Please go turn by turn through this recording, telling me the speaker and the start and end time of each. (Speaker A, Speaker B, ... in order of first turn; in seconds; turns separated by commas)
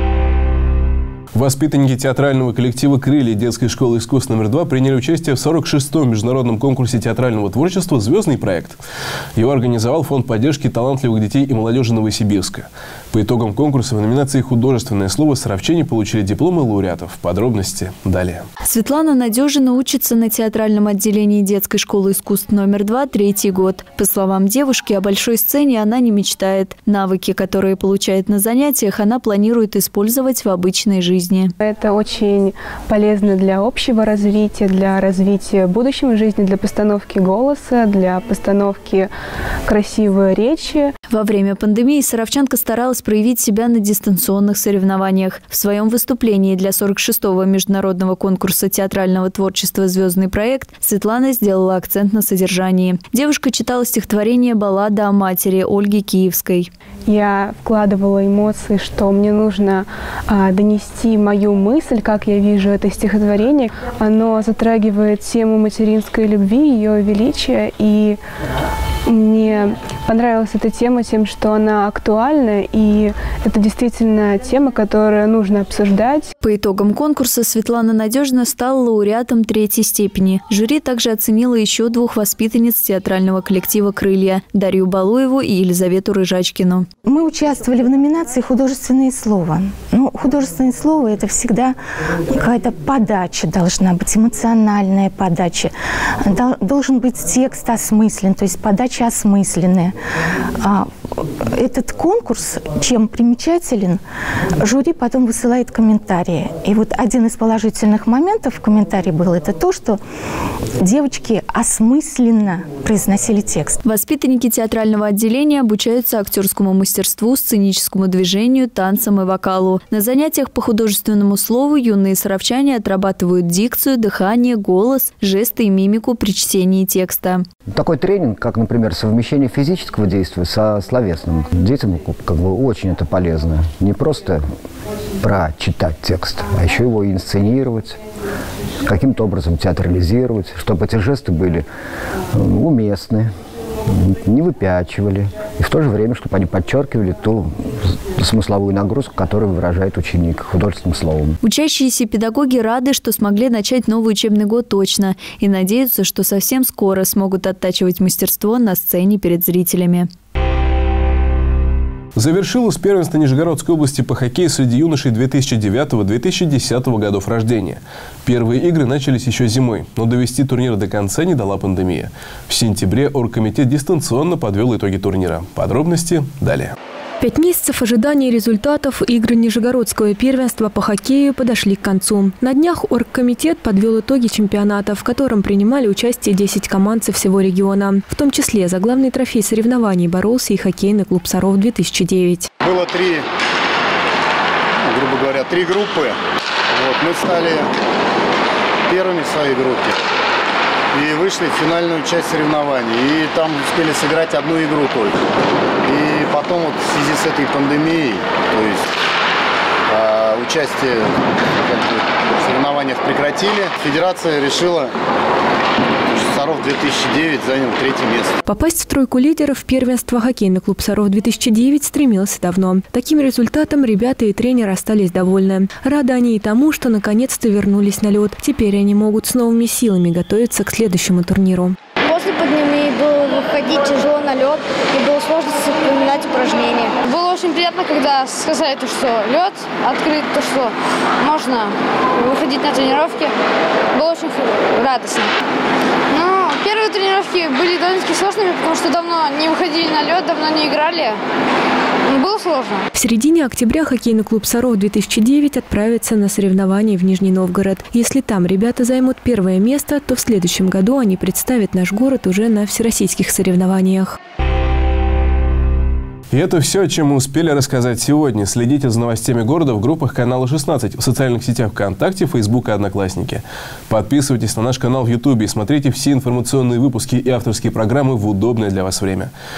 Speaker A: 1.3-8.8, Speaker A: 9.4-18.4, Speaker B: 18.6-31.5, Speaker C: 31.6-39.1, Speaker C: 39.7-40.9, Speaker B: 41.1-56.7, Speaker C: 57.1-68.2, Speaker C: 69.1-76.3, Speaker B: 76.4-86.8, Speaker D: 87.0-91.8, Speaker D: 92.3-99.9, Speaker D: 100.6-104.0, Speaker D: 104.6-110.0, Speaker D: 110.8-113.8, Speaker B: 113.8-127.4, Speaker E: 127.7-134.4, Speaker E: 135.2-138.0, Speaker E: 138.8-141.6, Speaker E: 142.3-143.3, Speaker E: 143.9-147.5, Speaker E: 148.1-151.4, Speaker B: 151.4-160.1, Speaker A: 162.2-176.7, Speaker F: 177.2-192.5, Speaker G: 192.6-193.2, Speaker G: 194.8-196.2, Speaker G: 196.7-197.7, Speaker G: 198.9-200.0, Speaker G: 200.9-205.2, Speaker G: 205.8-208.8, Speaker G: 209.9-214.9, Speaker G: 216.1-218.4, Speaker F: 218.4-231.8, Speaker H: 232.0-243.3, Speaker H: 243.9-245.3, Speaker H: 246.1-251.2, Speaker H: 252.1-252.9, Speaker F: 252.9-264.2, Speaker A: 266.3-279.3